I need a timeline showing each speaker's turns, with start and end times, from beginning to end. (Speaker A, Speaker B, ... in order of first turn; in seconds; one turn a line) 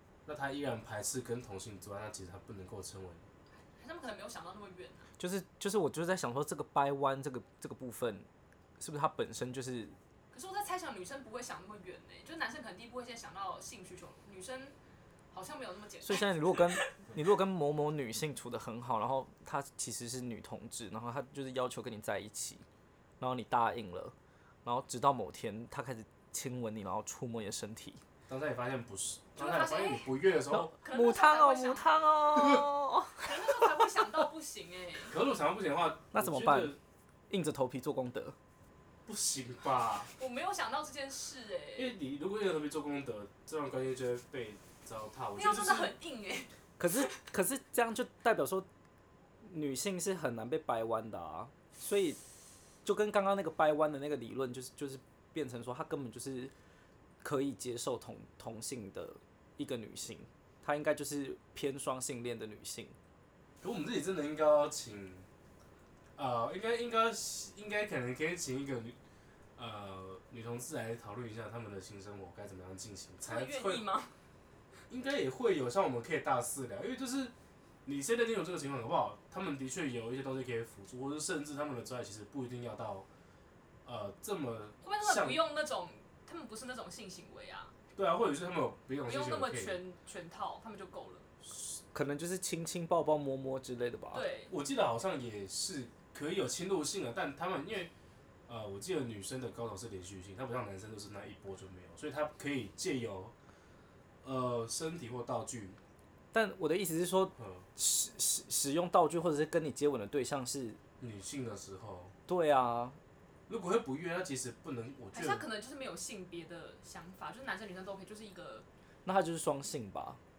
Speaker A: 0.3-3.2
Speaker B: 3.7-5.1
Speaker C: 5.2-8.3
Speaker C: 8.8-10.0
Speaker B: 10.3-14.8
Speaker B: 15.3-17.0
Speaker C: 16.0-22.6
Speaker C: 23.2-24.1
Speaker C: 24.6-28.0
Speaker A: 28.3-30.7
Speaker B: 29.4-30.1
Speaker C: 30.5-33.7
Speaker B: 30.8-31.9
Speaker B: 33.2-35.2
Speaker A: 35.1-36.8
Speaker C: 36.1-36.8
Speaker C: 37.3-38.4
Speaker A: 39.1-40.1
Speaker B: 40.1-42.0
Speaker A: 41.8-45.9
Speaker B: 45.4-47.0
Speaker C: 46.8-48.7
Speaker C: 49.4-52.2
Speaker C: 52.9-56.5
Speaker C: 57.2-63.0
Speaker A: 63.6-65.3
Speaker A: 66.2-69.0
Speaker A: 69.6-73.9
Speaker B: 73.2-74.1
Speaker A: 74.9-77.3
Speaker A: 77.8-83.1
Speaker A: 83.9-85.4
Speaker B: 84.8-87.7
Speaker A: 88.0-89.8
Speaker B: 89.0-91.3
Speaker C: 91.7-94.3
Speaker B: 94.1-94.5
Speaker A: 94.5-97.9
Speaker A: 98.5-103.3
Speaker A: 104.2-105.8
Speaker C: 106.3-110.8
Speaker A: 107.4-107.7
Speaker A: 111.0-112.1
Speaker C: 112.3-113.0
Speaker A: 113.5-115.5
Speaker B: 115.1-118.7
Speaker C: 119.0-120.2